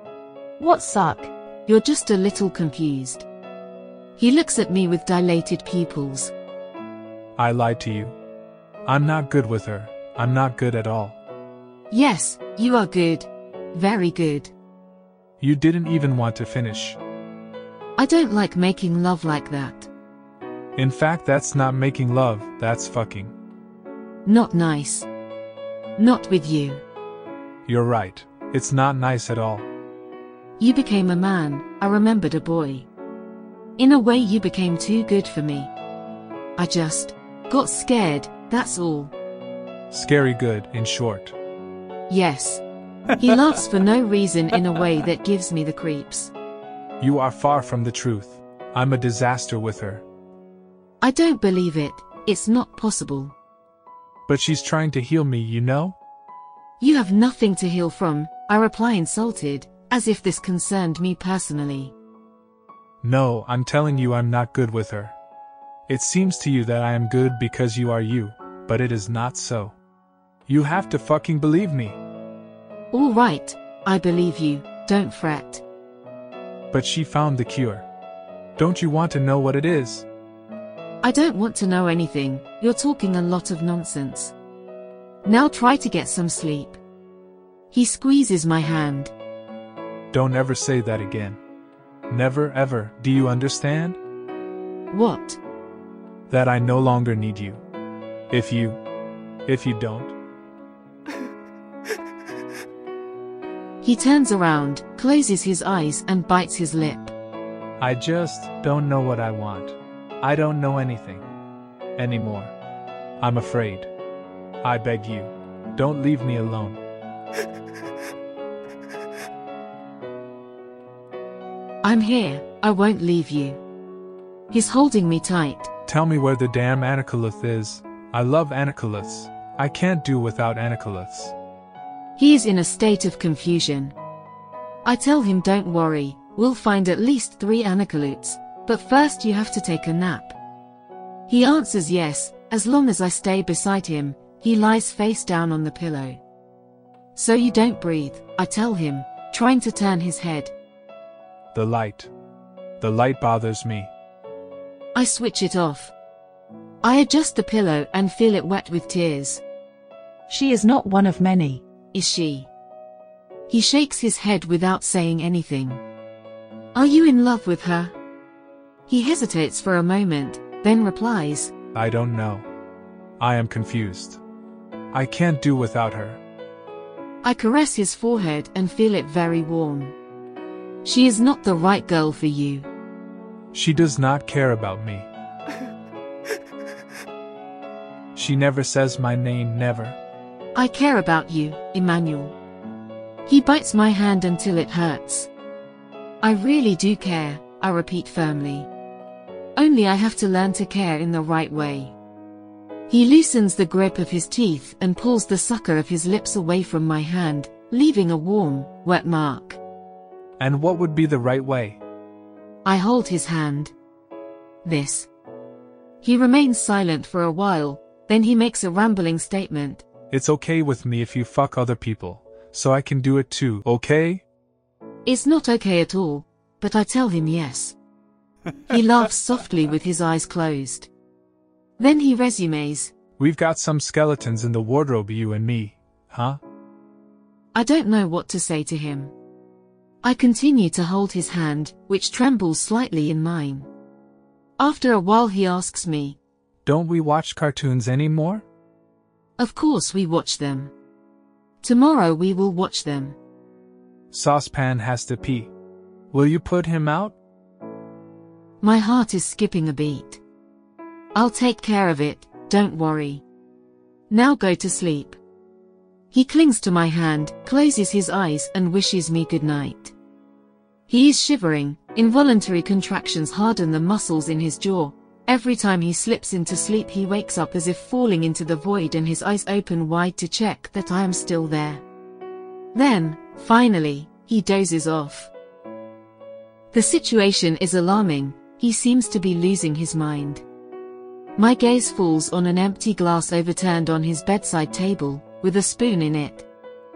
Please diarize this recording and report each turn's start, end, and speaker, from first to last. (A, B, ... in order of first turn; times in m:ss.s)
0:00.6-0:01.3 A
0:01.7-0:03.2 B
0:04.2-0:06.3 B
0:07.4-0:08.1 C
0:08.8-0:11.2 C
0:11.9-0:14.5 B
0:15.4-0:17.0 C
0:18.0-0:19.9 B
0:20.8-0:23.3 C
0:24.2-0:25.1 B
0:26.0-0:26.8 B
0:27.7-0:29.7 C
0:30.6-0:32.9 B
0:33.8-0:35.7 B
0:36.6-0:39.1 B
0:39.9-0:41.3 C
0:42.1-0:46.3 B
0:47.0-0:50.0 C
0:51.0-0:53.3 B
0:54.3-0:56.0 C
0:56.8-1:01.9 B
1:03.0-1:05.1 C
1:05.9-1:09.8 C
1:10.5-1:12.0 C
1:12.9-1:15.6 B
1:16.7-1:17.9 C
1:18.6-1:20.0 C
1:21.0-1:24.3 B
1:25.2-1:26.8 B
1:27.7-1:29.1 B
1:30.1-1:31.4 C
1:32.1-1:34.0 C
1:34.9-1:35.4 B
1:36.3-1:37.6 C
1:38.3-1:38.8 C
1:39.5-1:40.1 C
1:43.8-1:47.1 B
1:47.8-1:51.3 C
1:52.0-1:52.5 C
1:53.2-1:53.9 C
1:54.6-1:56.8 C
2:01.8-2:03.6 B
2:04.5-2:05.7 B
2:05.9-2:11.3 C
2:12.2-2:13.9 B
2:14.8-2:20.4 B
2:21.3-2:26.2 B
2:27.2-2:30.5 B
2:31.5-2:32.1 C
2:32.8-2:33.9 C
2:34.9-2:35.9 B
2:36.8-2:39.4 B
2:40.3-2:41.6 A
2:41.9-2:42.5 B
2:43.5-2:45.8 B
2:46.7-2:47.9 B
2:48.9-2:51.5 B
2:51.7-2:52.4 C
2:53.2-2:54.2 C
2:54.9-2:56.2 C
2:57.2-3:00.0 B
3:00.8-3:02.7 B
3:03.5-3:05.1 C
3:08.1-3:10.0 C
3:10.5-3:12.4 B
3:13.2-3:15.3 B
3:16.2-3:18.7 B
3:19.6-3:22.0 B
3:22.9-3:29.6 B
3:30.4-3:31.8 C
3:32.6-3:33.7 B
3:34.6-3:35.1 B
3:36.0-3:39.8 B
3:40.1-3:44.2 C
3:45.0-3:47.8 B
3:48.7-3:50.9 B
3:51.8-3:52.9 B
3:53.2-3:56.4 C
3:57.5-3:59.1 B
4:00.0-4:03.7 B
4:04.6-4:06.2 B
4:06.6-4:08.4 C
4:09.4-4:10.7 B
4:11.6-4:13.2 B
4:14.1-4:15.5 C
4:16.1-4:17.2 C
4:18.6-4:20.2 B
4:21.1-4:23.2 B
4:24.1-4:25.2 B
4:26.1-4:29.9 B
4:30.9-4:41.8 B
4:42.7-4:45.3 B
4:46.7-4:50.4 B
4:51.4-4:56.5 B